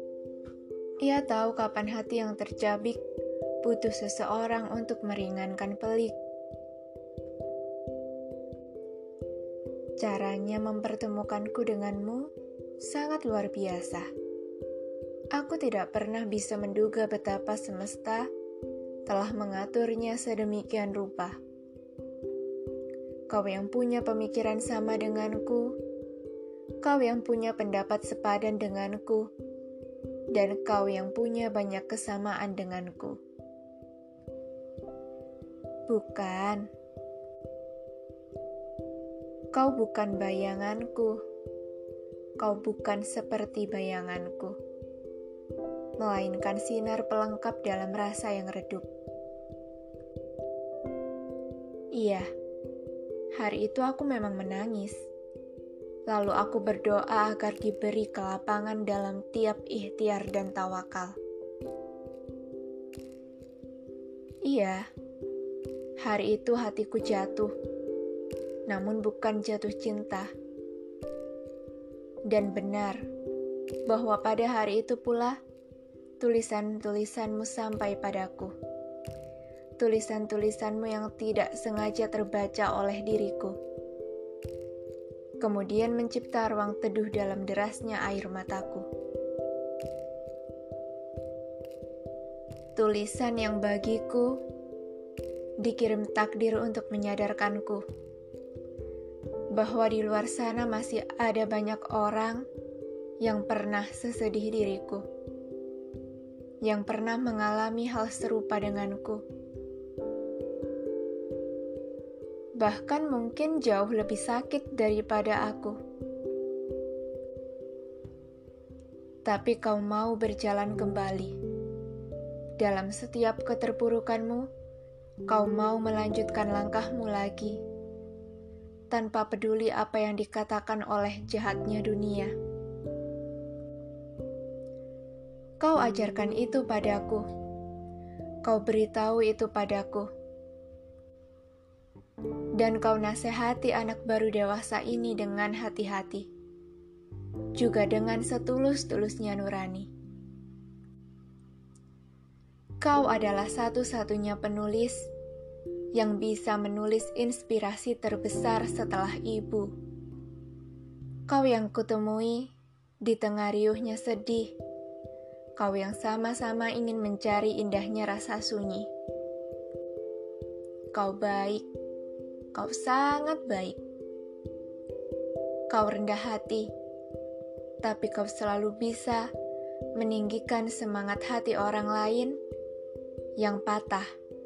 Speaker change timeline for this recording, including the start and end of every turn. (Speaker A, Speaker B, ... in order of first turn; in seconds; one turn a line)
Speaker A: 1.0-3.0
Speaker A: 3.6-6.1
Speaker A: 10.0-14.1
Speaker A: 15.3-18.3
Speaker A: 19.1-21.4
Speaker A: 23.3-25.8
Speaker A: 26.8-29.3
Speaker A: 30.3-33.2
Speaker A: 35.9-36.7
Speaker A: 39.5-41.2
Speaker A: 42.4-44.6
Speaker A: 46.0-48.9
Speaker A: 52.0-52.3
Speaker A: 53.4-55.0
Speaker A: 56.1-61.1
Speaker A: 64.4-64.8
Speaker A: 66.0-67.5
Speaker A: 68.7-70.3
Speaker A: 72.3-73.0
Speaker A: 73.9-75.4
Speaker A: 76.2-78.5
Speaker A: 79.8-83.6
Speaker A: 85.4-88.9
Speaker A: 92.8-94.4
Speaker A: 95.6-97.8
Speaker A: 99.5-102.4
Speaker A: 103.2-105.0
Speaker A: 106.6-109.2
Speaker A: 112.6-115.8
Speaker A: 119.2-121.3
Speaker A: 122.6-124.5
Speaker A: 125.3-127.6
Speaker A: 128.9-132.3
Speaker A: 135.6-137.2
Speaker A: 138.4-140.1
Speaker A: 142.6-146.3
Speaker A: 147.6-149.9
Speaker A: 152.8-155.1
Speaker A: 155.9-159.7
Speaker A: 161.3-162.5
Speaker A: 163.0-164.5
Speaker A: 165.6-168.9
Speaker A: 170.9-171.7
Speaker A: 172.5-173.8
Speaker A: 175.7-176.7
Speaker A: 177.8-179.3
Speaker A: 180.0-182.4
Speaker A: 183.4-184.1